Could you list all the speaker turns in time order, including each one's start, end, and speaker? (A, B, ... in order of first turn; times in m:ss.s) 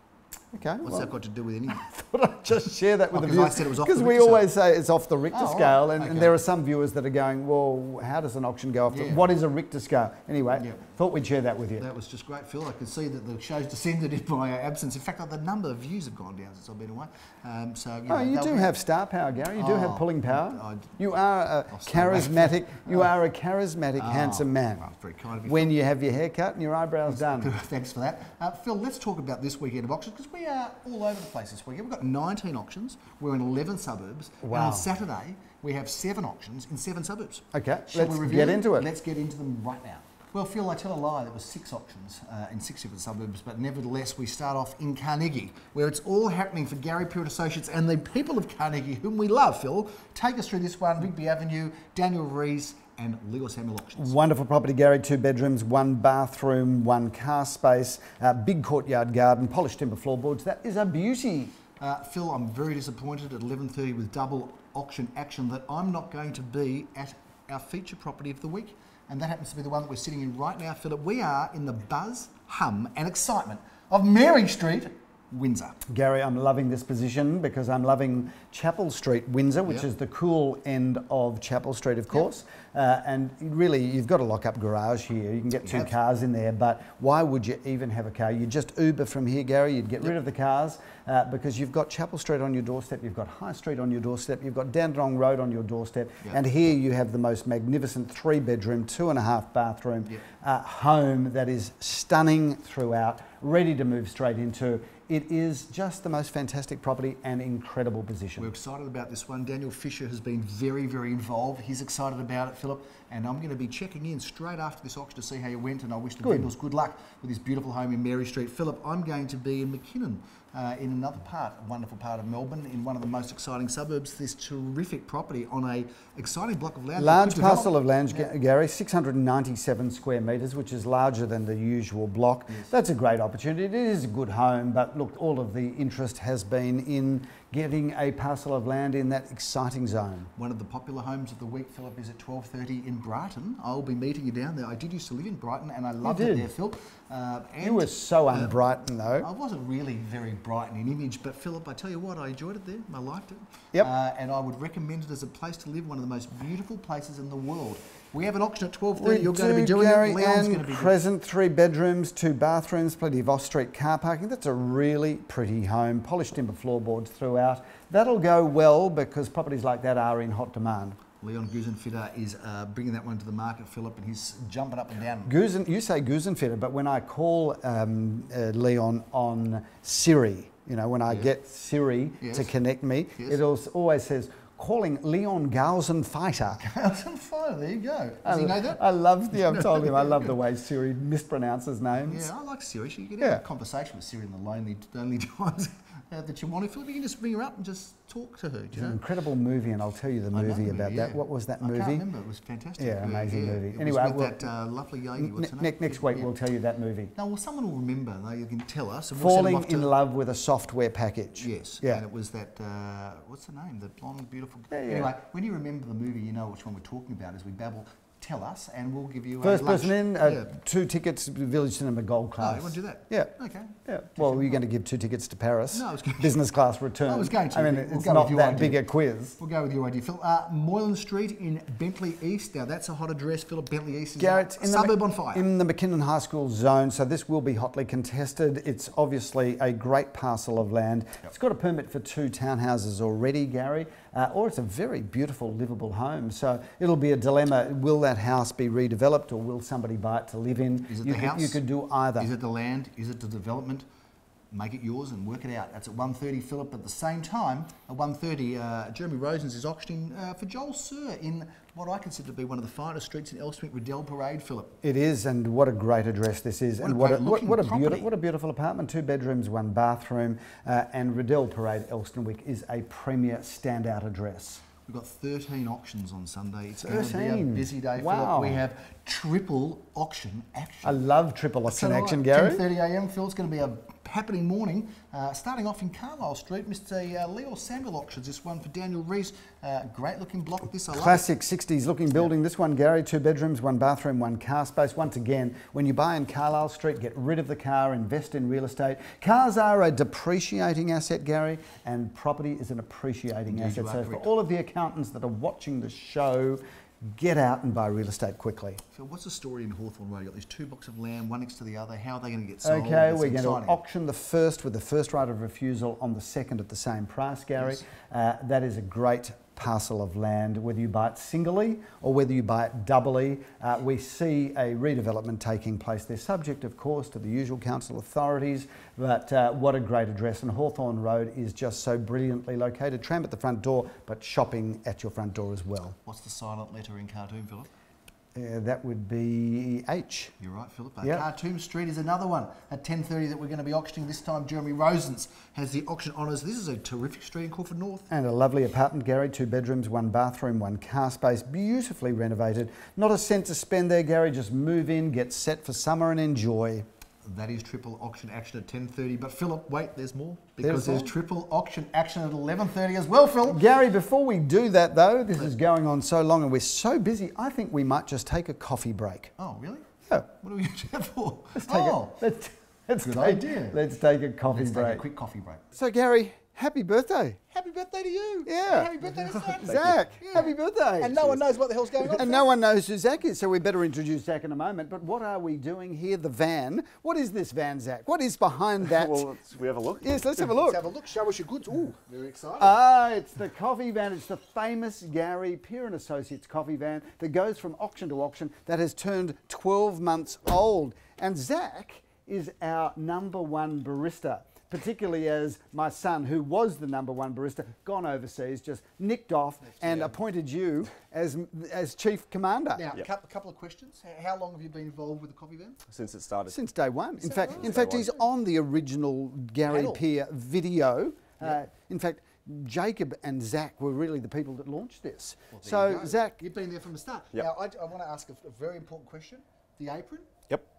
0:00.5-0:01.1 A
0:00.8-0:01.9 B
0:01.7-0:11.9 A
0:03.1-0:04.5 B
0:05.3-0:06.4 B
0:08.9-0:09.3 B
0:10.6-0:10.8 B
0:11.8-0:18.7 B
0:18.1-0:24.8 A
0:19.6-0:21.0 B
0:21.7-0:23.1 B
0:24.0-0:25.7 B
0:25.4-0:27.5 A
0:27.1-0:54.2 B
0:34.4-0:34.9 A
0:37.5-0:38.9 A
0:54.0-1:01.6 A
1:01.8-1:15.8 B
1:15.9-1:48.5 A
1:25.6-1:25.9 B
1:48.4-2:07.8 B
1:56.2-1:56.5 A
2:07.0-2:20.3 A
2:20.4-2:28.6 B
2:26.0-2:26.5 A
2:27.6-2:29.3 A
2:29.2-2:41.0 B
2:39.0-2:51.0 A
2:51.2-2:55.4 B
2:55.3-3:06.6 A
3:02.2-3:02.5 B
3:06.6-3:10.3 B
3:08.2-3:12.3 A
3:12.0-3:19.0 B
3:18.7-3:22.0 A
3:20.3-3:26.3 B
3:22.8-3:24.4 A
3:25.2-3:27.1 A
3:27.2-3:29.9 B
3:29.2-3:32.0 A
3:31.4-3:40.5 B
3:34.7-3:35.1 A
3:39.4-3:43.3 A
3:42.4-3:44.6 B
3:43.9-3:49.4 A
3:45.7-3:46.4 B
3:47.1-3:48.8 B
3:49.4-3:55.5 B
3:54.2-4:12.3 A
4:10.9-4:11.6 B
4:12.2-4:13.8 B
4:14.5-4:24.8 B
4:24.8-4:34.6 A
4:26.8-4:28.1 B
4:34.8-4:41.0 B
4:36.8-4:38.6 A
4:40.8-4:42.6 A
4:41.7-4:51.3 B
4:50.9-5:08.8 A
5:03.5-5:04.3 B
5:08.9-5:13.8 B
5:12.6-5:36.0 A
5:36.0-5:37.7 B
5:38.4-5:40.3 A
5:40.4-5:48.1 B
5:48.1-5:56.9 A
5:57.2-6:03.6 B
6:00.6-6:01.1 A
6:03.5-6:09.3 A
6:09.4-6:12.2 B
6:11.6-6:15.0 A
6:13.0-6:13.8 B
6:14.5-6:15.6 B
6:15.7-6:17.4 A
6:17.5-6:22.5 B
6:18.5-6:29.3 A
6:19.7-6:20.0 C
6:28.8-6:30.3 C
6:30.0-6:30.8 A
6:30.4-6:32.8 B
6:32.6-6:52.9 A
6:49.7-6:50.1 B
6:52.8-6:55.8 B
6:55.9-6:56.6 C
6:56.5-7:06.4 A
6:57.2-6:57.9 B
6:57.5-6:58.1 C
6:59.7-7:00.0 B
7:05.5-7:10.4 B